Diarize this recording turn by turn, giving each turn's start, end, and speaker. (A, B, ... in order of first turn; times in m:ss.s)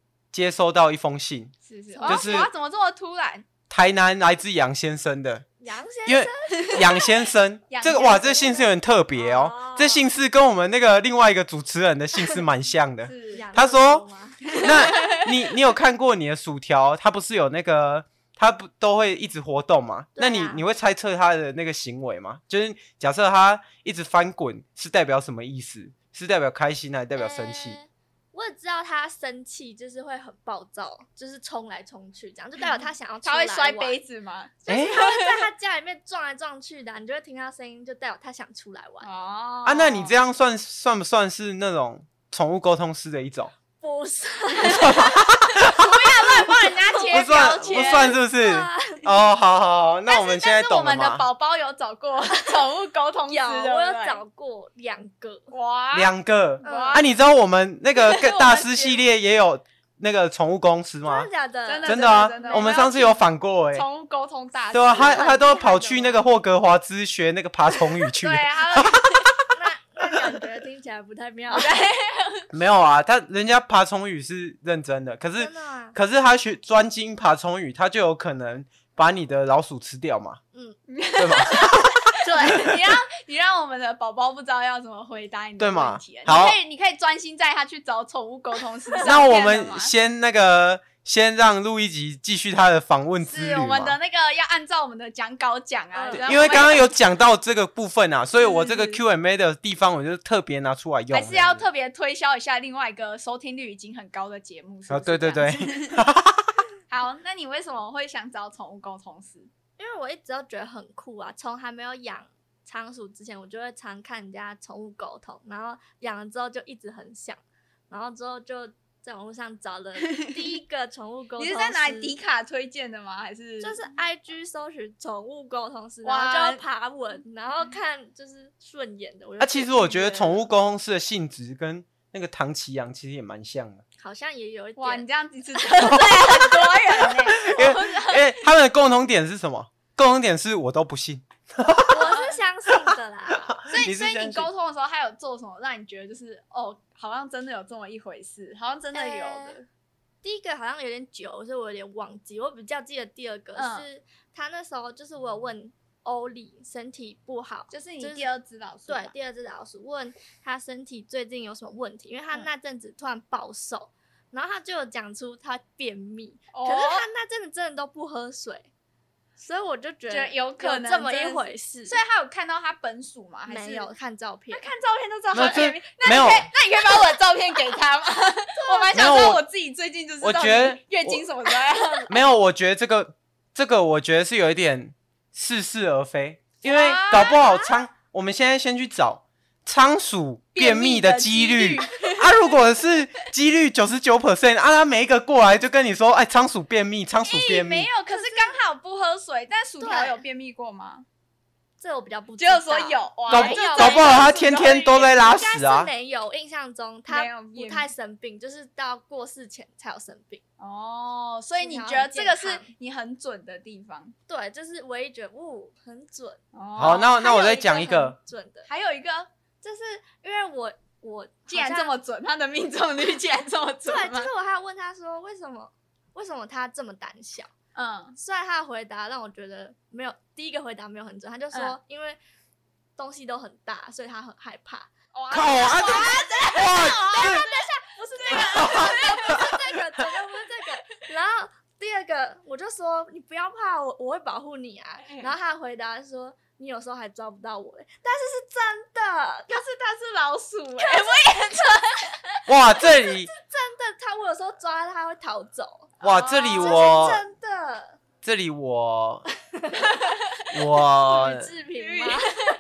0:00.3-0:01.5 A
0:01.7-0:03.4 B
0:01.9-0:02.5 C
0:02.1-0:02.5 A
0:03.7-0:05.5 A
0:05.6-0:07.0 C
0:06.1-0:14.0 A
0:06.7-0:07.0 B
0:07.7-0:08.7 B
0:09.2-0:10.0 C
0:13.0-0:13.5 B
0:13.3-0:15.2 C
0:14.5-0:15.4 B
0:14.6-0:27.8 A
0:20.2-0:20.6 C
0:27.2-0:34.0 C
0:32.6-0:35.4 B
0:34.6-0:39.1 C
0:34.7-0:35.0 A
0:39.0-0:40.2 B
0:39.6-0:43.5 A
0:43.8-0:45.7 C
0:44.7-0:46.1 A
0:45.7-0:48.2 B
0:46.8-0:47.4 C
0:47.1-0:51.2 A
0:48.0-0:49.3 C
0:50.1-0:54.2 B
0:52.3-0:52.6 C
0:53.3-0:55.5 C
0:55.5-0:57.1 B
0:55.9-1:01.3 A
0:56.6-0:57.0 C
0:58.0-0:59.0 B
1:01.0-1:02.7 C
1:01.7-1:03.2 B
1:01.8-1:03.8 A
1:03.7-1:05.6 B
1:04.7-1:09.0 A
1:04.9-1:06.2 C
1:08.2-1:09.4 B
1:09.5-1:11.7 C
1:11.5-1:12.5 B
1:12.5-1:20.4 A
1:15.4-1:16.0 C
1:20.9-1:29.9 B
1:21.2-1:22.8 A
1:22.2-1:22.7 C
1:25.6-1:26.6 A
1:29.0-1:34.0 A
1:33.2-1:36.8 B
1:36.0-1:36.7 C
1:36.1-1:41.7 A
1:38.4-1:39.0 B
1:41.1-1:46.1 B
1:44.9-1:46.6 A
1:46.9-1:49.5 B
1:49.8-2:02.1 C
2:00.0-2:00.6 B
2:01.4-2:03.8 B
2:03.6-2:10.4 C
2:06.0-2:06.6 B
2:09.4-2:13.8 A
2:14.0-2:15.1 C
2:14.8-2:18.4 B
2:15.8-2:16.7 C
2:17.4-2:22.1 A
2:21.9-2:23.6 C
2:22.0-2:22.4 B
2:23.5-2:24.5 A
2:23.7-2:29.6 B
2:28.9-2:29.6 C
2:30.2-2:38.3 C
2:33.6-2:33.9 B
2:37.7-2:39.1 B
2:38.9-2:48.7 C
2:46.5-2:47.1 B
2:49.4-2:52.0 C
2:50.1-2:53.9 B
2:53.5-2:54.7 C
2:54.5-3:02.2 B
2:55.3-2:56.5 A
2:55.4-2:55.6 C
2:58.6-2:59.2 C
2:58.9-2:59.4 A
3:00.2-3:01.2 A
3:02.1-3:17.9 A
3:06.6-3:07.7 B
3:10.6-3:12.6 B
3:17.2-3:21.1 B
3:18.1-3:18.6 C
3:19.8-3:20.2 C
3:21.8-3:24.3 C
3:22.4-3:25.2 B
3:23.3-3:25.9 A
3:25.1-3:30.4 C
3:27.1-3:27.9 B
3:30.6-3:34.2 B
3:31.6-3:32.7 C
3:34.3-3:38.7 C
3:36.5-3:37.1 B
3:36.8-3:38.2 A
3:38.7-3:39.3 B
3:39.6-3:41.9 C
3:41.5-3:44.3 B
3:43.9-3:47.5 C
3:47.8-3:48.2 B
3:48.2-3:52.2 C
3:53.0-3:54.9 C
3:55.1-3:57.6 B
3:55.3-3:57.4 A
3:55.8-4:09.6 C
3:58.2-3:59.4 B
3:58.3-3:59.6 A
4:09.5-4:12.4 B
4:10.8-4:11.4 C
4:12.5-4:13.3 A
4:13.1-4:15.9 C
4:16.0-4:17.0 B
4:16.0-4:17.2 A
4:16.6-4:18.0 C
4:18.2-4:19.3 A
4:20.5-4:21.5 A
4:21.0-4:22.3 C
4:21.8-4:22.4 B